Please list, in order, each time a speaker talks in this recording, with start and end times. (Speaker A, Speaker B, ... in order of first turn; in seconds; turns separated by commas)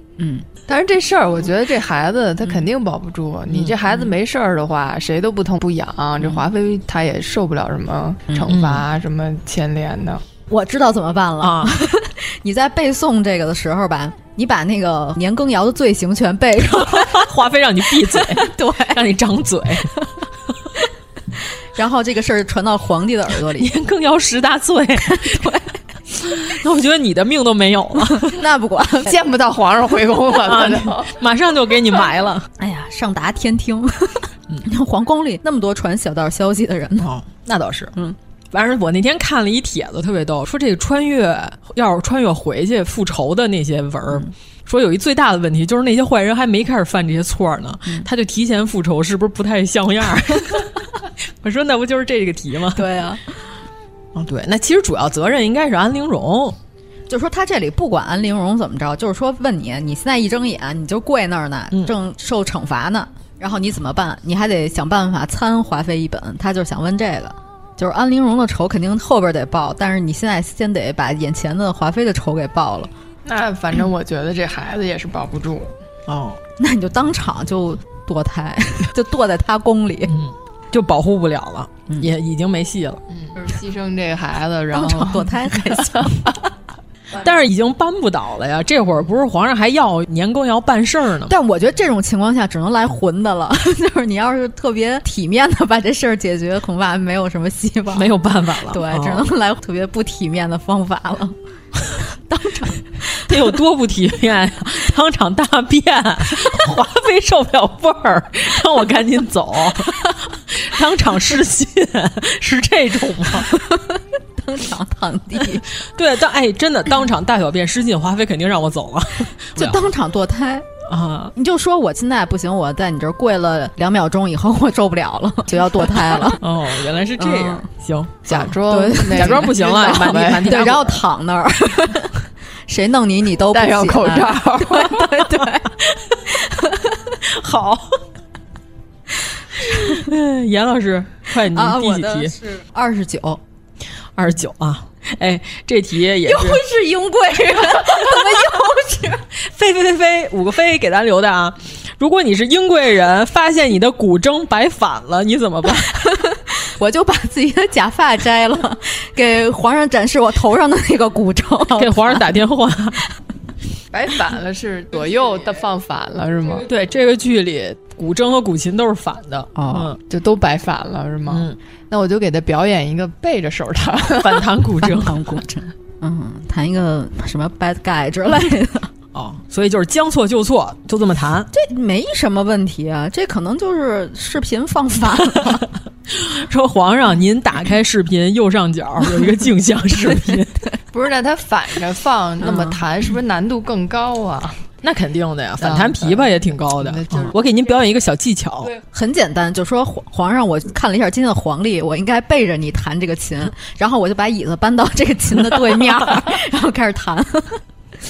Speaker A: 0.2-0.5, Speaker B: 0.7-10.2, Speaker C: 3.5-3.7, Speaker C: 8.4-8.8, Speaker A: 10.5-17.2, Speaker C: 11.4-11.8, Speaker C: 16.7-19.9, Speaker A: 18.2-19.0, Speaker A: 21.7-23.7, Speaker C: 23.5-25.5, Speaker A: 25.0-25.7, Speaker C: 26.1-28.4, Speaker A: 28.1-29.1, Speaker B: 29.0-31.1, Speaker C: 30.4-32.5, Speaker A: 32.6-37.1, Speaker C: 37.0-37.9, Speaker C: 38.5-50.9, Speaker C: 51.4-52.9, Speaker A: 52.7-53.4, Speaker C: 54.1-56.6, Speaker A: 57.1-72.9, Speaker B: 73.2-75.7, Speaker C: 76.1-76.4, Speaker A: 76.6-80.1, Speaker C: 80.1-83.0, Speaker B: 83.3-86.1, Speaker A: 84.7-86.3, Speaker C: 87.2-91.3, Speaker A: 91.3-98.1, Speaker C: 97.9-99.3, Speaker A: 98.7-101.3, Speaker A: 102.3-103.3, Speaker C: 103.3-113.5, Speaker A: 113.5-115.7, Speaker C: 115.8-119.9, Speaker A: 119.5-120.7, Speaker C: 120.9-121.3, Speaker A: 121.3-126.4, Speaker C: 126.0-128.5, Speaker A: 127.2-127.7, Speaker B: 128.3-130.7, Speaker A: 128.7-135.7, Speaker C: 129.1-131.0, Speaker B: 133.5-135.0, Speaker C: 135.9-136.2, Speaker A: 136.4-137.0, Speaker C: 137.2-138.0, Speaker C: 139.6-142.3, Speaker A: 139.7-139.9, Speaker A: 141.5-143.4, Speaker C: 144.1-146.6, Speaker A: 146.2-149.2, Speaker C: 149.3-156.0, Speaker A: 156.1-162.4, Speaker C: 161.8-163.0, Speaker B: 163.9-166.6, Speaker C: 166.6-170.0, Speaker A: 169.5-169.9, Speaker B: 170.1-174.5, Speaker C: 171.3-171.6, Speaker C: 174.2-175.4, Speaker A: 174.8-178.9, Speaker C: 179.1-181.5, Speaker A: 181.5-185.7, Speaker C: 186.1-190.6, Speaker B: 190.9-194.6, Speaker A: 192.4-192.8, Speaker C: 194.8-198.7, Speaker B: 195.6-197.4, Speaker A: 198.9-207.6